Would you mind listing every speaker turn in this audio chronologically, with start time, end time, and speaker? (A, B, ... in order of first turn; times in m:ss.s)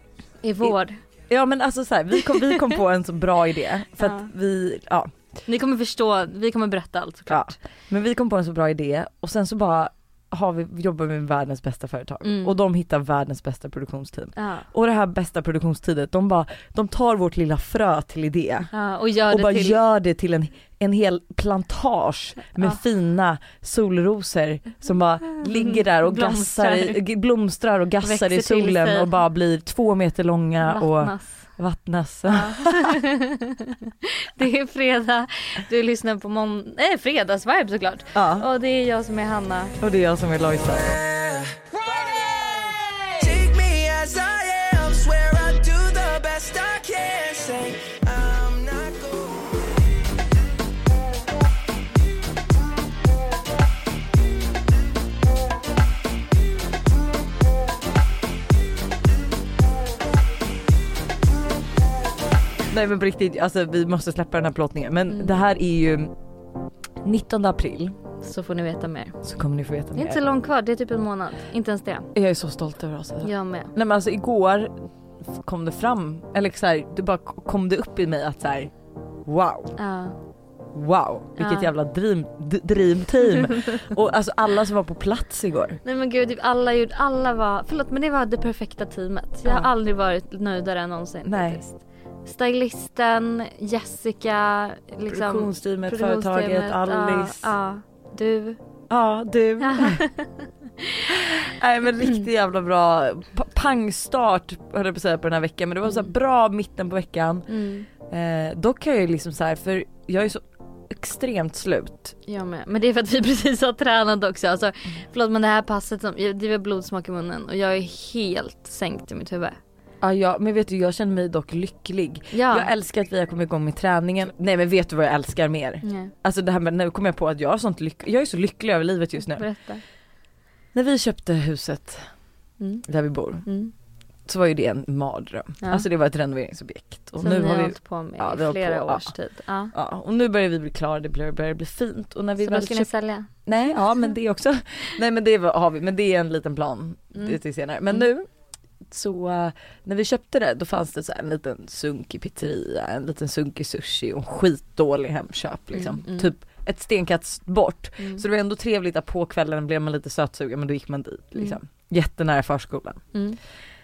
0:00.4-0:01.0 A
0:01.3-0:05.1 B
0:02.3-0:02.6 A
0:04.0-0:04.3 A
0:05.5-0:07.6 A
0:07.3-0:18.7 B
0:12.2-0:12.6 A
0:14.4-0:14.7 A
0:18.7-0:19.8 A
0:19.3-0:33.0 B
0:25.4-0:27.0 A
0:28.0-0:29.1 A
0:30.6-0:31.5 A
0:32.3-0:39.8 A
0:38.2-0:38.5 B
0:39.8-0:41.0 B
0:41.3-0:41.6 C
0:42.2-0:42.6 C
0:43.1-0:49.7 C
1:02.7-1:06.1 B
1:05.1-1:05.4 A
1:07.0-1:08.0 B
1:08.2-1:09.2 A
1:09.2-1:10.2 B
1:10.0-1:12.1 A
1:12.2-1:18.7 B
1:13.2-1:13.7 A
1:19.3-1:19.8 B
1:19.8-1:20.2 A
1:20.7-1:25.8 B
1:21.4-1:21.7 A
1:25.8-1:38.6 A
1:29.4-1:29.7 B
1:31.3-1:31.6 B
1:35.1-1:37.5 B
1:38.9-1:40.0 B
1:39.6-1:41.1 A
1:41.1-1:47.5 B
1:47.5-1:47.9 A
1:48.1-1:52.2 B
1:52.3-1:59.6 A
2:00.0-2:09.5 B
2:02.3-2:02.7 A
2:05.8-2:06.1 A
2:09.2-2:09.8 A
2:10.7-2:12.1 B
2:12.6-2:12.9 A
2:12.9-2:13.5 B
2:13.4-2:13.7 A
2:14.3-2:19.1 B
2:17.2-2:19.7 A
2:19.7-2:22.9 B
2:22.4-2:23.3 A
2:23.5-2:28.3 B
2:28.9-2:43.0 B
2:35.7-2:36.3 A